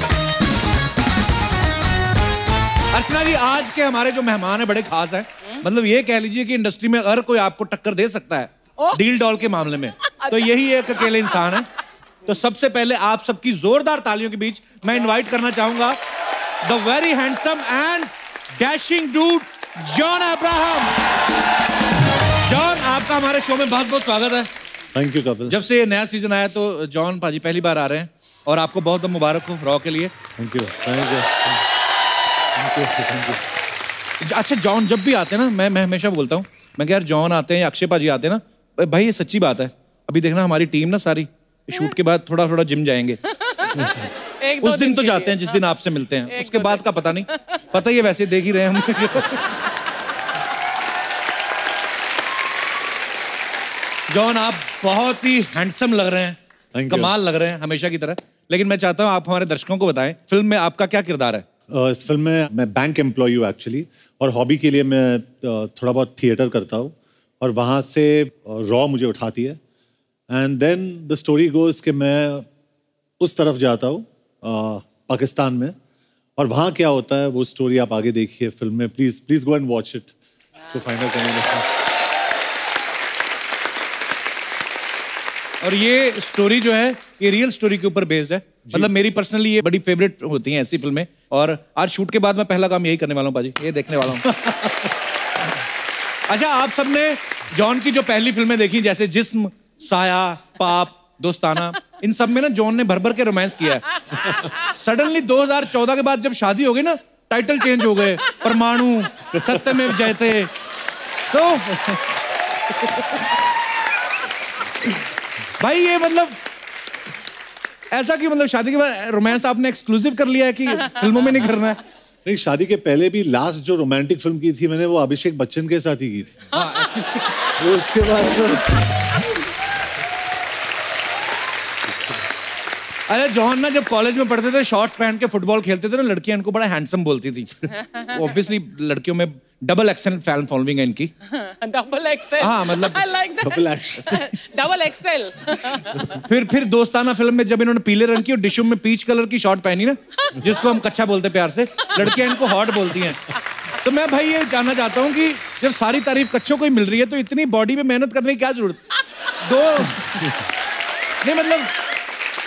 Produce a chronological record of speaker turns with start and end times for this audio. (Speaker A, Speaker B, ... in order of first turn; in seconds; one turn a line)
Speaker A: 2.9-11.7
Speaker B: 10.1-10.4
Speaker A: 12.3-16.0
Speaker A: 16.6-20.9
Speaker A: 22.4-24.5
Speaker C: 24.9-25.5
Speaker A: 25.5-30.1
Speaker C: 30.4-31.6
Speaker C: 32.5-33.4
Speaker A: 34.2-43.2
Speaker B: 44.4-45.6
Speaker A: 44.6-49.4
Speaker B: 46.3-47.2
Speaker A: 54.1-61.4
Speaker C: 56.7-57.1
Speaker C: 61.7-69.6
Speaker C: 70.3-72.5
Speaker C: 73.2-75.8
Speaker C: 76.4-80.1
Speaker C: 80.7-81.7
Speaker A: 85.6-94.7
Speaker A: 96.3-103.8
Speaker A: 104.8-110.5
Speaker A: 111.3-111.8
Speaker A: 115.6-116.4
Speaker A: 117.9-121.8
Speaker C: 122.2-126.4
Speaker A: 126.5-127.2
Speaker C: 127.6-129.1
Speaker A: 133.1-137.5
Speaker A: 138.1-141.1
Speaker B: 141.3-146.0
Speaker A: 142.4-143.0
Speaker C: 143.4-144.4
Speaker A: 146.3-153.2
Speaker A: 153.8-158.8
Speaker A: 159.4-160.0
Speaker A: 161.2-161.7